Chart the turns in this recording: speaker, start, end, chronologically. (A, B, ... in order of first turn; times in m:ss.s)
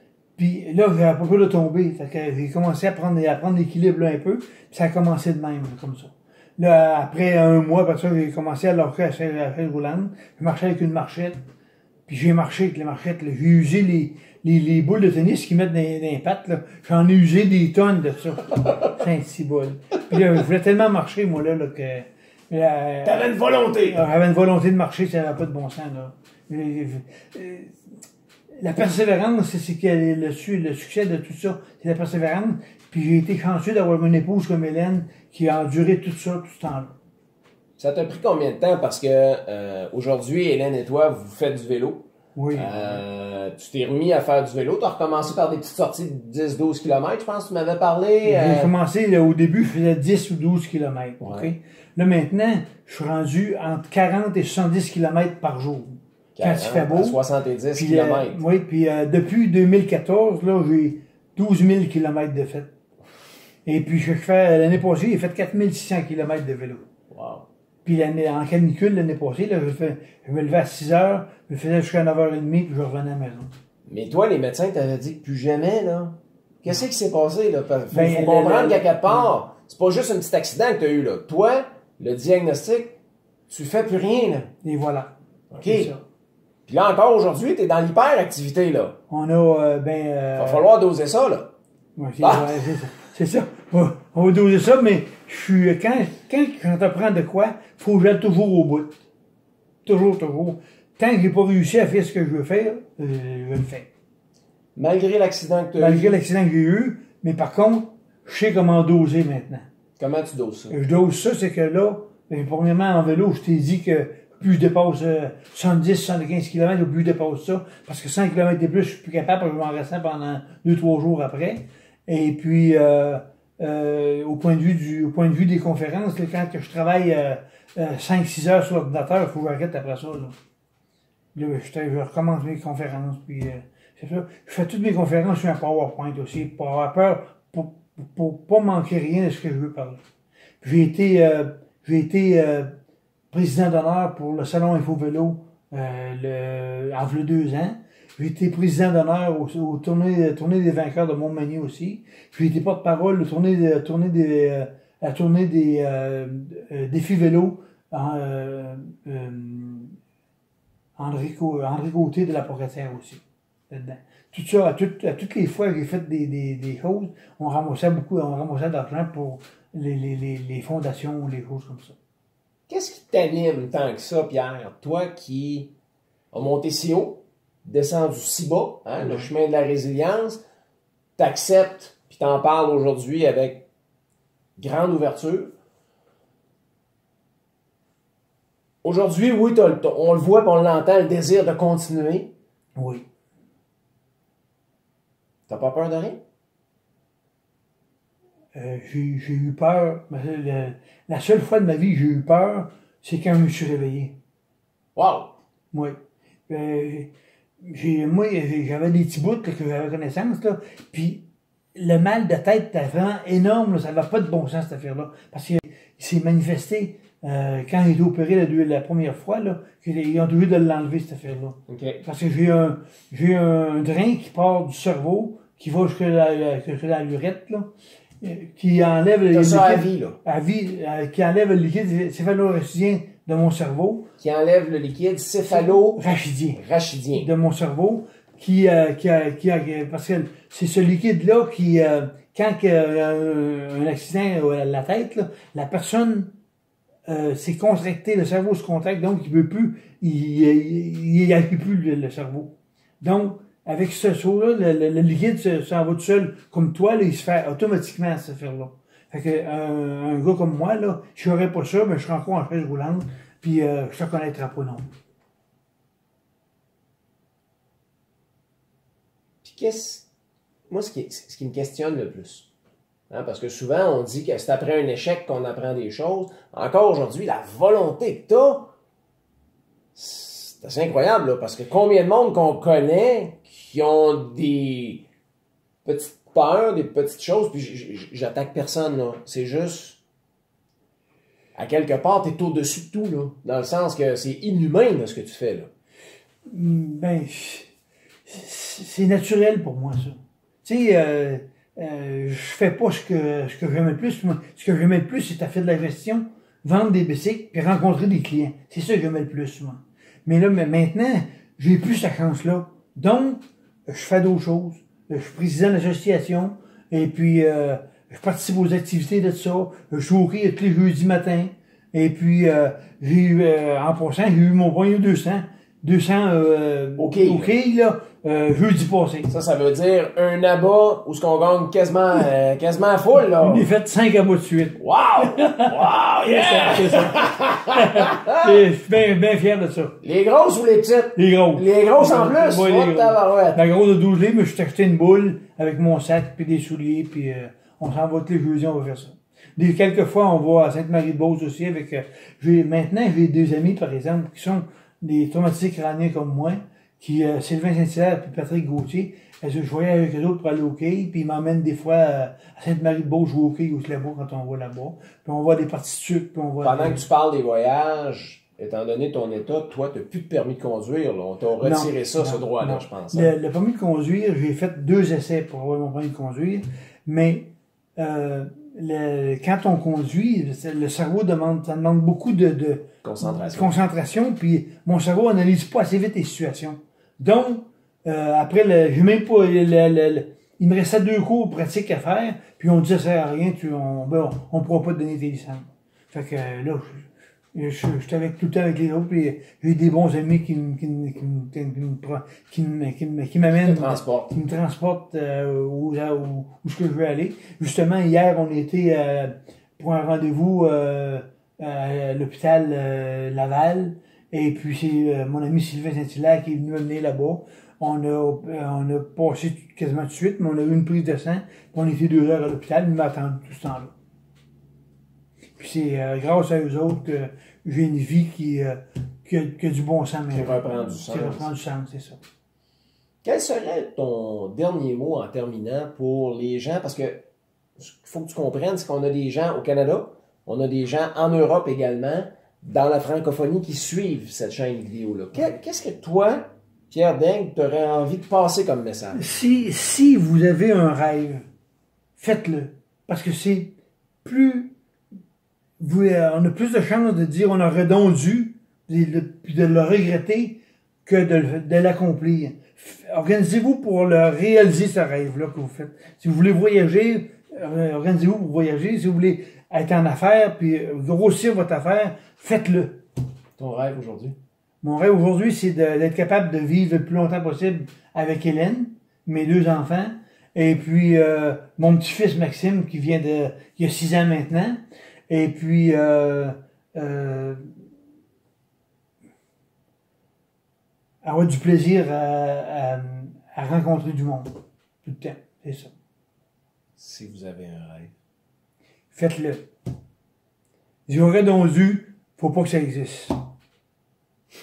0:00.4-0:11.4 A
0:12.1-0:23.3 A
0:23.0-0:24.0 B
0:23.8-0:27.7 A
0:28.6-0:36.9 A
0:37.8-0:48.7 B
0:42.4-0:43.0 A
0:48.2-0:57.2 A
0:51.2-0:51.5 B
0:56.4-0:58.4 B
0:57.7-1:02.7 A
1:03.6-1:06.8 A
1:07.1-1:07.4 B
1:07.8-1:13.5 A
1:13.8-1:23.0 B
1:17.9-1:19.3 A
1:23.5-1:24.5 B
1:24.6-1:25.1 A
1:25.5-1:25.9 B
1:25.6-1:26.0 A
1:26.7-1:29.0 B
1:29.1-1:30.6 A
1:30.4-1:31.5 B
1:32.0-1:39.0 A
1:32.2-1:32.5 B
1:39.8-1:43.9 A
1:44.7-1:46.2 B
1:45.8-1:49.7 A
1:50.0-1:50.8 B
1:50.7-2:10.3 A
2:11.3-2:20.0 A
2:20.6-2:22.8 A
2:23.3-2:40.0 A
2:41.0-2:52.0 A
2:52.7-2:55.7 B
2:56.3-3:00.4 B
2:59.0-2:59.3 A
3:01.2-3:03.7 B
3:04.6-3:05.5 B
3:08.8-3:12.3 B
3:12.8-3:13.0 A
3:15.5-3:16.2 B
3:18.5-3:24.2 A
3:25.0-3:25.3 B
3:25.7-3:26.0 A
3:26.5-3:27.1 A
3:27.6-3:47.7 A
3:41.7-3:42.0 B
3:48.2-3:54.1 A
3:49.3-3:50.2 B
3:54.2-3:56.0 B
3:55.5-3:56.6 A
3:56.6-3:57.3 B
3:57.1-4:06.3 A
4:07.1-4:24.9 A
4:29.4-4:30.1 B
4:30.7-4:32.5 B
4:33.1-4:38.7 B
4:39.9-4:45.0 B
4:45.8-4:50.0 B
4:51.5-4:55.7 B
4:56.5-4:57.7 A
4:58.2-5:29.3 A
5:27.0-5:27.5 B
5:29.3-5:33.7 B
5:33.4-5:40.0 A
5:34.8-5:38.6 B
5:40.0-5:43.6 B
5:41.2-6:07.0 A
6:06.6-6:13.3 B
6:11.6-7:03.9 A
6:23.0-6:23.7 B
6:43.5-6:44.3 B
7:05.6-7:12.2 A
7:10.3-7:11.5 B
7:13.2-7:17.2 B
7:17.8-7:29.2 B
7:29.1-7:31.4 A
7:32.2-7:34.7 A
7:35.8-7:53.0 A
7:53.6-7:54.4 B
7:54.8-8:07.7 A
8:11.2-8:14.5 A
8:15.0-8:15.9 A
8:17.0-8:18.1 B
8:19.1-8:19.7 A
8:21.1-8:23.4 A